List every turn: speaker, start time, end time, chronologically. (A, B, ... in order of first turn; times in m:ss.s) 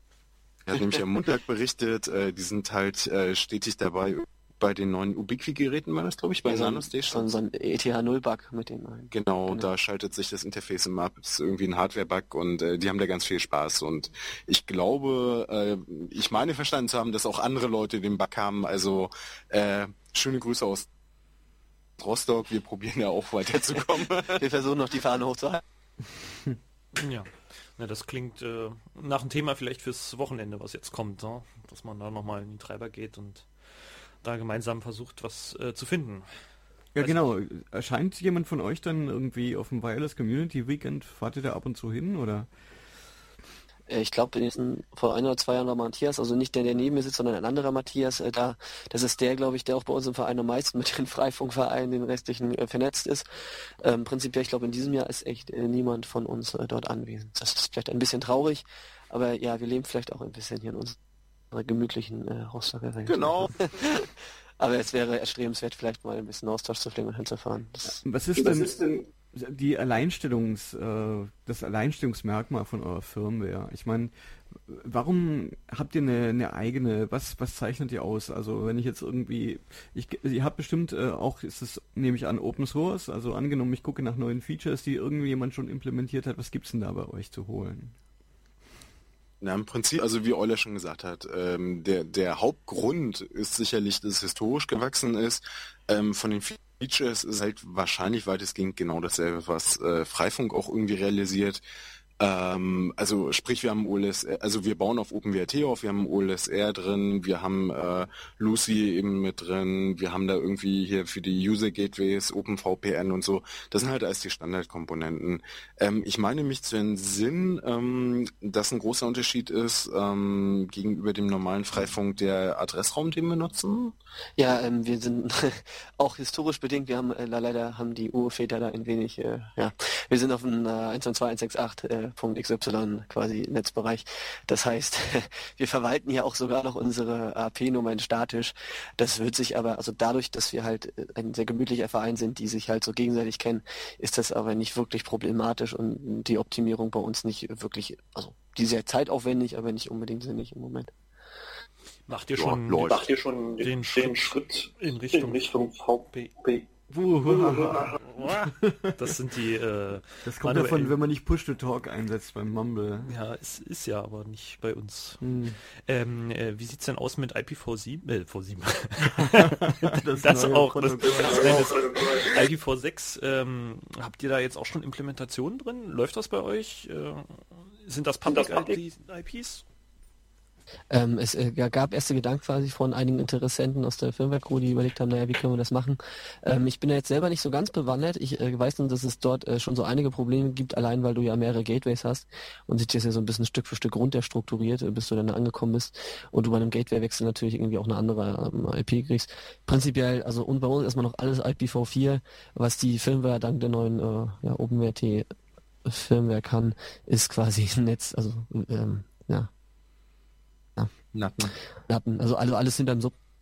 0:00.7-0:07.3 A
0:06.4-0:09.7 B
0:09.1-0:20.9 A
0:22.0-0:24.4 A
0:24.3-0:25.6 B
0:26.9-0:36.3 C
0:36.9-0:42.5 D
0:43.9-0:53.2 B
0:53.8-1:01.0 B
1:01.5-1:04.1 B
1:03.0-1:03.6 A
1:04.6-1:08.0 B
1:07.8-1:27.9 D
1:08.3-1:09.1 E
1:29.4-1:41.6 A
1:42.2-2:03.9 A
2:04.4-2:30.9 B
2:32.1-2:35.5 C
2:32.4-2:33.0 A
2:32.9-2:36.6 E
2:36.9-2:39.0 D
2:37.2-2:38.0 E
2:38.0-2:41.0 C
2:40.2-2:43.1 D
2:43.0-2:59.6 C
2:45.2-2:45.6 D
2:49.2-2:51.8 D
2:51.1-2:52.4 E
2:58.2-2:58.8 E
3:00.9-3:25.3 B
3:25.8-3:29.5 B
3:31.1-3:31.5 A
3:31.9-3:33.1 B